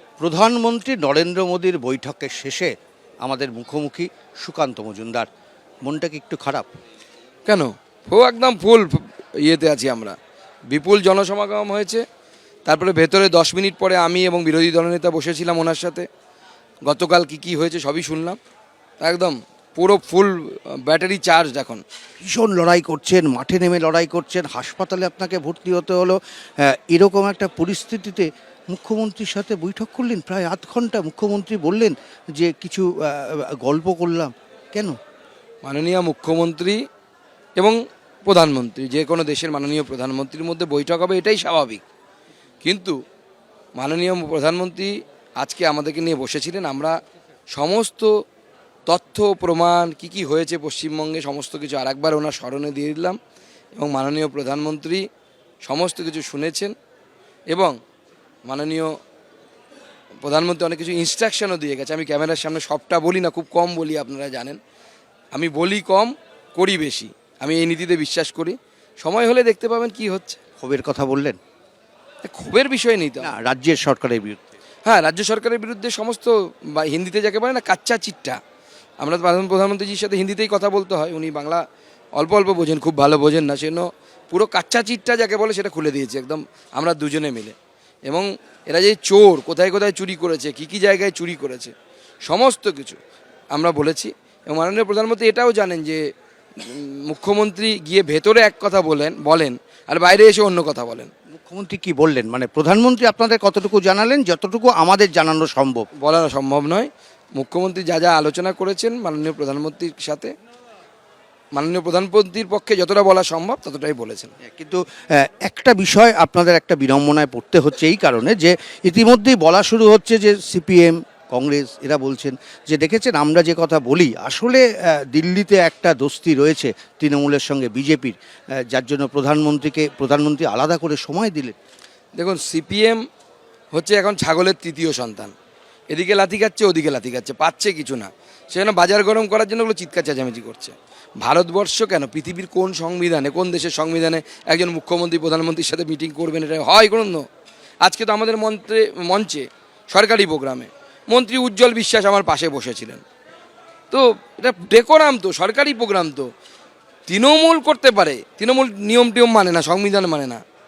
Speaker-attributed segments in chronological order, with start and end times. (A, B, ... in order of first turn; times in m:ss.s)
0:00.2-0:05.3 A
0:05.8-0:06.7 A
0:07.4-0:10.2 B
0:10.7-0:12.0 B
0:12.7-0:16.1 B
0:16.8-0:18.4 B
0:19.0-0:21.8 B
0:22.2-0:35.0 A
0:35.6-0:36.8 B
0:37.6-0:41.8 B
0:42.6-0:43.0 B
0:43.8-0:47.0 B
0:47.5-0:48.1 B
0:48.9-0:53.2 B
0:53.8-0:55.1 B
0:55.6-0:56.8 B
0:58.5-0:59.0 B
1:00.2-1:04.6 B
1:05.3-1:10.4 B
1:10.6-1:11.4 A
1:12.2-1:13.4 B
1:13.2-1:14.4 A
1:14.8-1:18.4 B
1:19.0-1:21.6 B
1:22.2-1:27.6 B
1:28.1-1:31.7 B
1:32.2-1:33.0 B
1:33.5-1:36.0 B
1:36.6-1:41.1 B
1:41.3-1:45.9 A
1:46.0-1:50.3 B
1:51.5-1:54.3 B
1:54.4-2:11.6 A
2:12.2-2:13.0 B
2:13.7-2:15.3 B
2:15.9-2:27.3 B
2:27.8-2:33.0 B
2:33.9-2:36.3 B
2:37.1-2:40.4 B